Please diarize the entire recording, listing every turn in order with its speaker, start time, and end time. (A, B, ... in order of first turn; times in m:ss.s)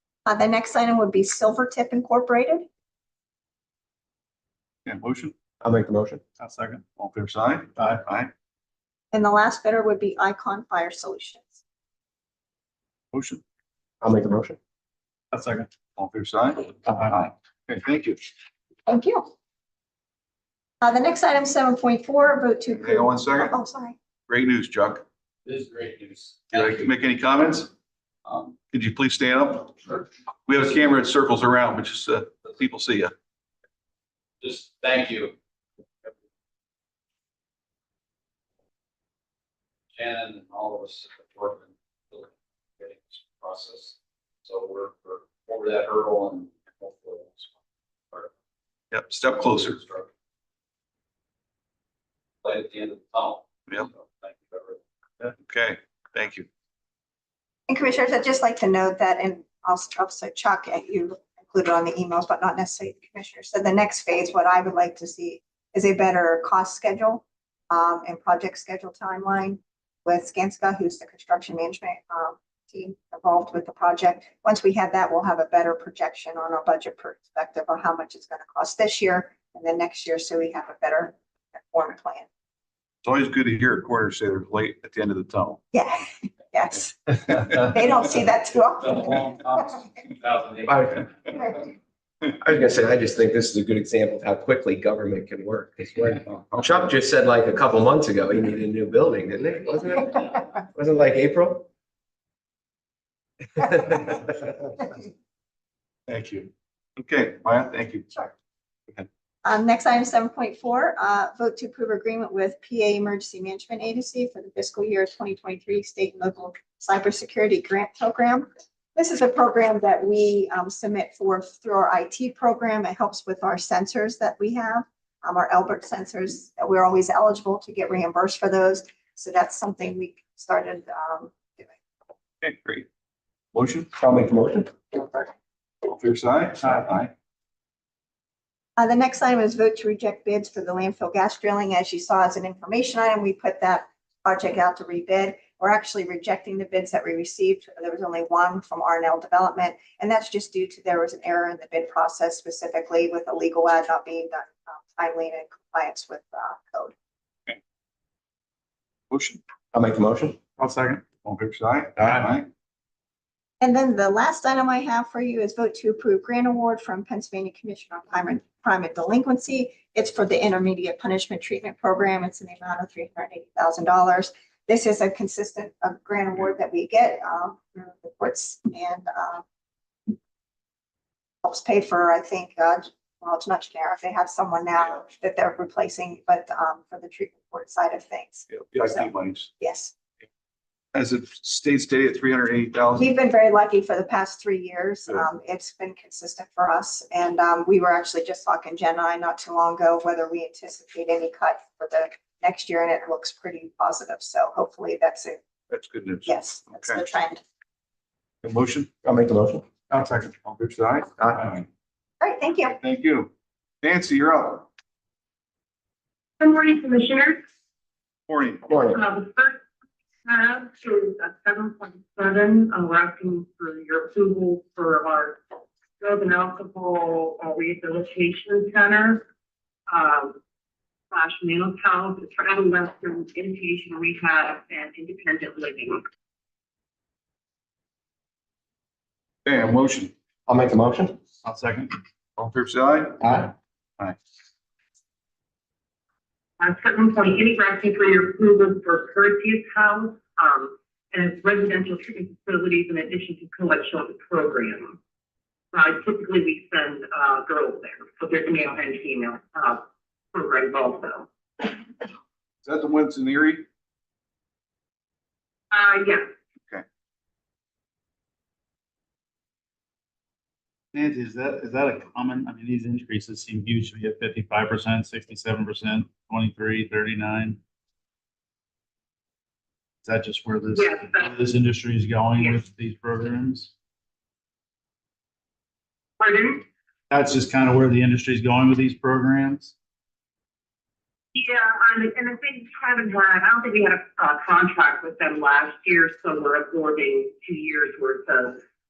0:00.2-0:02.6 A
0:04.8-0:05.3 B
0:05.6-0:06.2 C
0:06.4-0:06.8 D
0:07.0-0:08.3 B
0:07.8-0:08.0 D
0:09.1-0:11.6 A
0:13.1-0:13.4 B
0:14.0-0:14.6 C
0:15.3-0:15.7 D
0:16.0-0:18.2 B
0:16.8-0:17.1 D
0:18.9-0:19.3 A
0:20.8-0:24.0 A
0:22.7-0:23.5 B
0:24.3-0:25.0 B
0:25.4-0:26.8 E
0:26.5-0:27.7 B
0:28.2-0:28.6 E
0:28.7-0:29.7 B
0:30.5-0:33.1 B
0:34.4-0:35.3 E
0:39.9-0:47.5 E
0:48.9-0:49.8 B
0:49.5-0:50.1 E
0:52.4-0:54.8 E
0:55.3-0:56.5 B
0:57.7-1:22.3 A
1:23.0-1:25.6 B
1:25.7-1:29.4 A
1:28.8-1:30.7 E
1:30.6-1:31.1 C
1:32.4-1:41.7 C
1:43.6-1:44.3 C
1:46.1-1:48.0 B
1:49.4-2:11.7 A
2:12.4-2:12.9 B
2:13.5-2:13.9 B
2:14.0-2:14.7 C
2:15.8-2:17.1 B
2:18.8-2:36.9 A
2:39.1-2:39.4 B
2:39.7-2:40.4 C
2:40.6-2:41.1 D
2:41.2-2:42.5 B
2:43.6-2:59.4 A
3:01.4-3:09.9 A
3:08.5-3:09.5 B
3:10.9-3:13.1 B
3:13.0-3:25.4 A
3:25.7-3:27.0 B
3:26.2-3:27.4 A
3:28.4-3:28.9 B
3:29.0-3:29.6 C
3:29.9-3:30.3 D
3:30.4-3:31.6 B
3:31.2-3:31.5 C
3:32.2-3:32.8 A
3:32.7-3:33.3 B
3:33.8-3:34.7 B
3:36.4-3:37.4 F
3:38.3-3:38.9 B
3:38.7-3:39.0 C
3:38.9-3:39.6 F
3:40.2-3:45.4 F
3:46.0-3:49.2 F
3:49.9-3:50.4 F
3:51.1-3:56.0 F
3:59.4-4:00.1 B
4:00.5-4:01.2 C
4:01.4-4:01.9 D
4:02.4-4:03.4 B
4:03.2-4:03.5 C
4:06.6-4:15.0 F
4:15.7-4:19.8 F
4:20.3-4:21.7 F
4:22.6-4:23.6 B
4:25.7-4:26.3 F
4:30.9-4:37.6 D
4:40.0-4:43.7 D
4:40.7-4:41.3 F
4:42.4-4:42.6 F
4:46.2-4:46.6 F
4:47.1-4:49.7 D
4:51.3-4:58.6 F